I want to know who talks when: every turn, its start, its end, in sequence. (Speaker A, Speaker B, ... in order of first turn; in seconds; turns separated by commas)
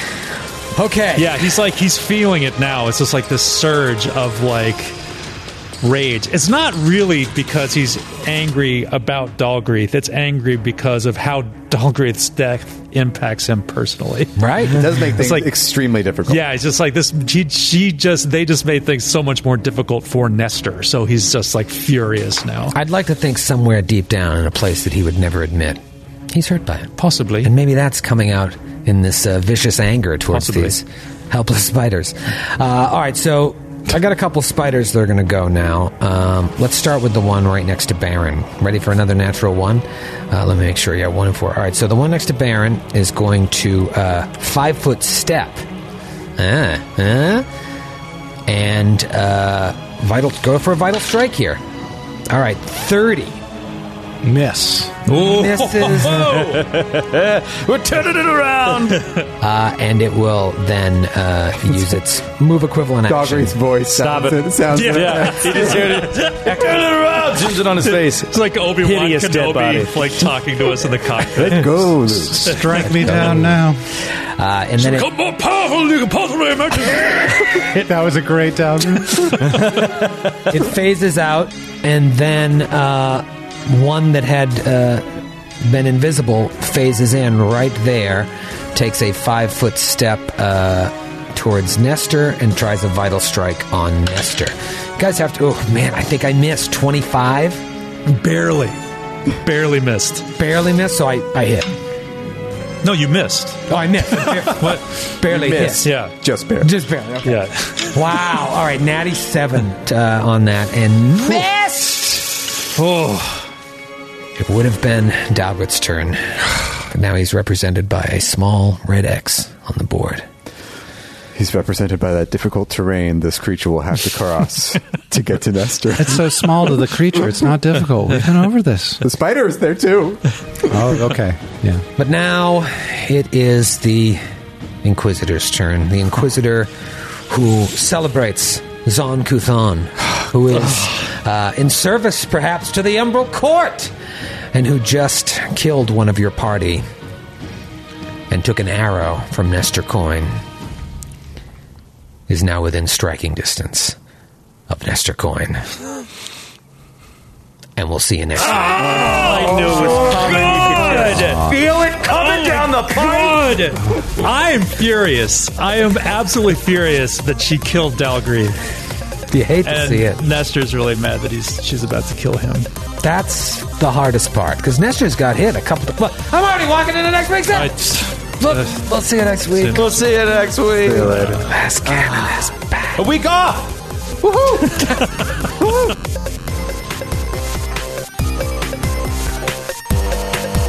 Speaker A: 0.8-1.5, Speaker B: 1.1-5.0, Speaker B: 5.8-15.5, Speaker A: 14.4-14.8, Speaker C: 14.7-16.5, Speaker B: 16.3-22.7, Speaker A: 22.7-26.9, Speaker B: 27.0-27.5, Speaker A: 27.4-45.6, Speaker B: 30.3-30.8, Speaker A: 46.4-47.5, Speaker A: 48.5-51.6, Speaker A: 52.3-53.4, Speaker D: 54.2-55.0, Speaker B: 55.0-56.8, Speaker A: 55.1-56.4, Speaker E: 56.3-59.0, Speaker B: 59.0-59.2, Speaker A: 59.4-63.6, Speaker C: 63.1-66.1, Speaker E: 63.9-70.3, Speaker B: 64.7-66.8, Speaker B: 67.8-71.9, Speaker C: 71.3-72.6, Speaker D: 72.2-73.8, Speaker B: 72.5-73.4, Speaker A: 72.9-73.6, Speaker A: 74.1-75.1, Speaker B: 74.8-77.8, Speaker D: 77.8-79.7, Speaker B: 79.2-79.8, Speaker A: 80.4-97.6, Speaker B: 98.0-98.8, Speaker B: 99.4-100.2, Speaker A: 100.4-101.7, Speaker B: 102.8-105.0, Speaker A: 103.7-105.9, Speaker C: 105.3-106.7, Speaker B: 105.8-106.1, Speaker A: 106.6-112.2, Speaker B: 107.2-108.0, Speaker B: 112.6-113.5, Speaker A: 114.4-120.2, Speaker C: 121.3-126.4, Speaker D: 126.0-129.0, Speaker C: 129.0-130.2, Speaker D: 130.6-131.8, Speaker A: 132.0-134.2, Speaker A: 134.8-136.7, Speaker A: 137.3-143.9, Speaker A: 144.5-146.8, Speaker A: 148.3-150.4, Speaker A: 152.3-154.0, Speaker A: 154.7-155.7, Speaker A: 157.8-161.2, Speaker B: 158.5-168.6, Speaker E: 158.7-163.7, Speaker A: 169.3-170.2, Speaker B: 169.6-172.7, Speaker A: 173.0-179.8, Speaker B: 177.5-178.8, Speaker B: 179.6-179.9, Speaker E: 179.7-181.4, Speaker C: 180.8-181.2, Speaker A: 181.3-183.0, Speaker E: 182.9-184.9